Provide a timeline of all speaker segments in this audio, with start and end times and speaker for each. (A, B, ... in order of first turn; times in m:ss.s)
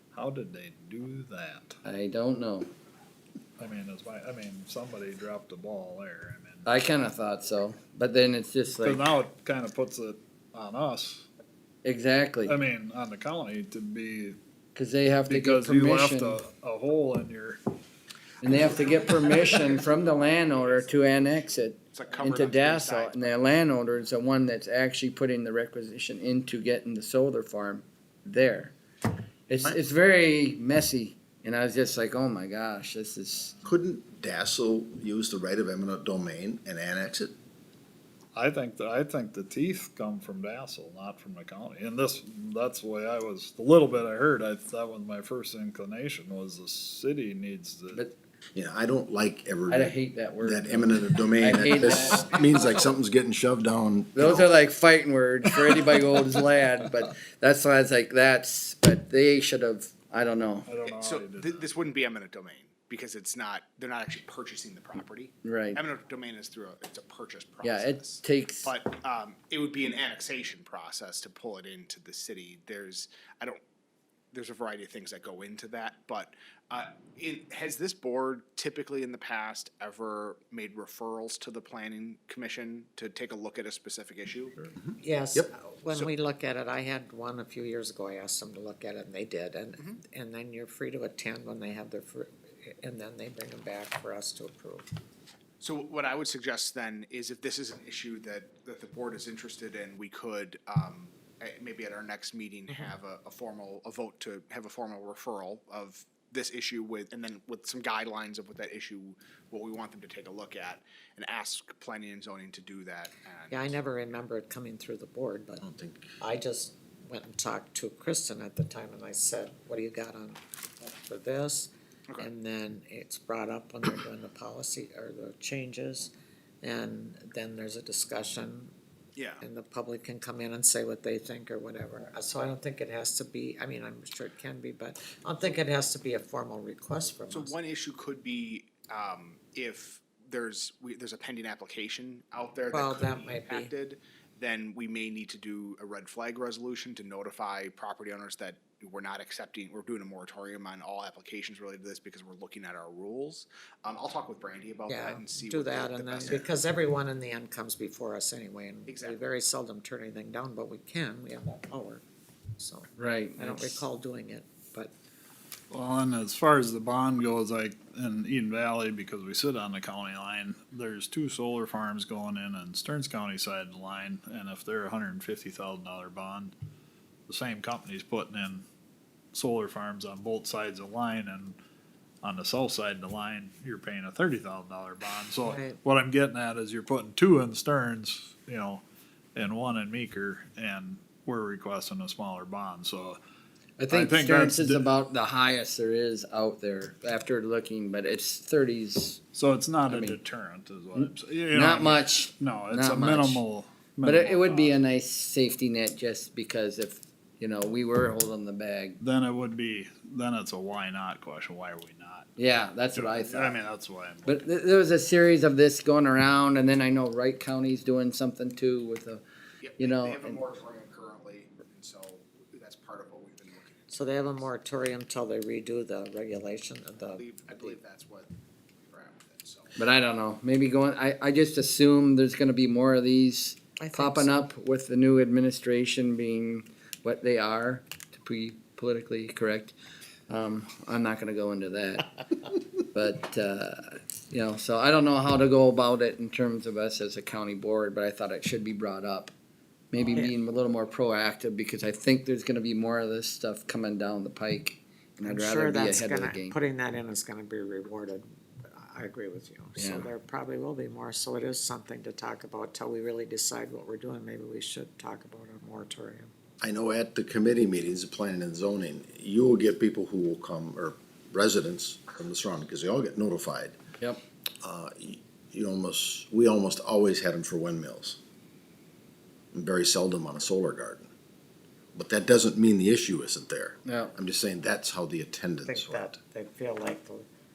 0:00.1-0:01.8 A
0:01.8-0:02.7 B
0:03.6-0:06.7 A
0:06.6-0:09.0 B
0:08.8-0:11.3 A
0:11.8-0:12.6 B
0:12.4-0:14.4 A
0:14.7-0:16.4 B
0:15.3-0:17.6 A
0:18.4-0:28.8 B
0:18.9-0:23.5 C
0:29.5-0:33.6 B
0:33.6-0:37.3 D
0:38.3-0:48.0 A
0:48.5-0:54.5 D
0:49.7-0:52.5 B
0:54.1-1:00.7 B
1:00.6-1:01.7 A
1:00.8-1:13.6 C
1:05.4-1:05.8 B
1:07.6-1:08.7 B
1:14.3-1:24.7 C
1:24.8-1:25.5 D
1:25.0-1:34.8 E
1:35.6-1:53.8 C
1:53.5-1:55.6 E
1:55.6-1:56.1 D
1:56.2-2:06.1 E
2:06.6-2:08.7 E
2:09.2-2:09.4 C
2:09.4-2:17.5 E
2:17.3-2:36.6 C
2:22.7-2:23.7 E
2:34.9-2:42.0 E
2:38.9-2:39.2 C
2:42.6-2:44.9 E
2:43.0-2:43.8 B
2:45.7-2:56.5 A
2:57.3-2:58.6 A
2:59.3-3:01.6 A
3:02.2-3:08.8 A
3:05.4-3:05.8 E
3:09.3-3:13.2 A
3:13.8-3:19.2 B
3:13.9-3:14.9 A
3:19.3-3:24.8 A
3:19.9-3:20.2 B
3:21.0-3:23.4 B
3:24.0-3:29.0 B
3:29.0-3:32.3 A
3:32.4-3:33.6 B
3:32.9-3:34.5 A
3:34.2-3:39.2 B
3:39.6-3:44.5 C
3:39.8-3:40.4 B
3:43.9-3:47.8 E
3:47.1-3:48.3 C
3:48.9-3:49.8 C
3:49.8-3:59.7 B
3:53.8-3:54.4 E
4:00.3-4:02.2 B
4:02.9-4:09.3 B
4:09.9-4:16.6 B
4:10.0-4:10.3 E
4:15.2-4:26.3 E
4:19.8-4:20.1 B
4:26.6-4:33.8 D
4:34.6-4:38.2 D
4:39.5-4:41.1 D
4:41.9-4:46.1 D
4:43.8-4:44.1 B
4:45.6-4:47.3 E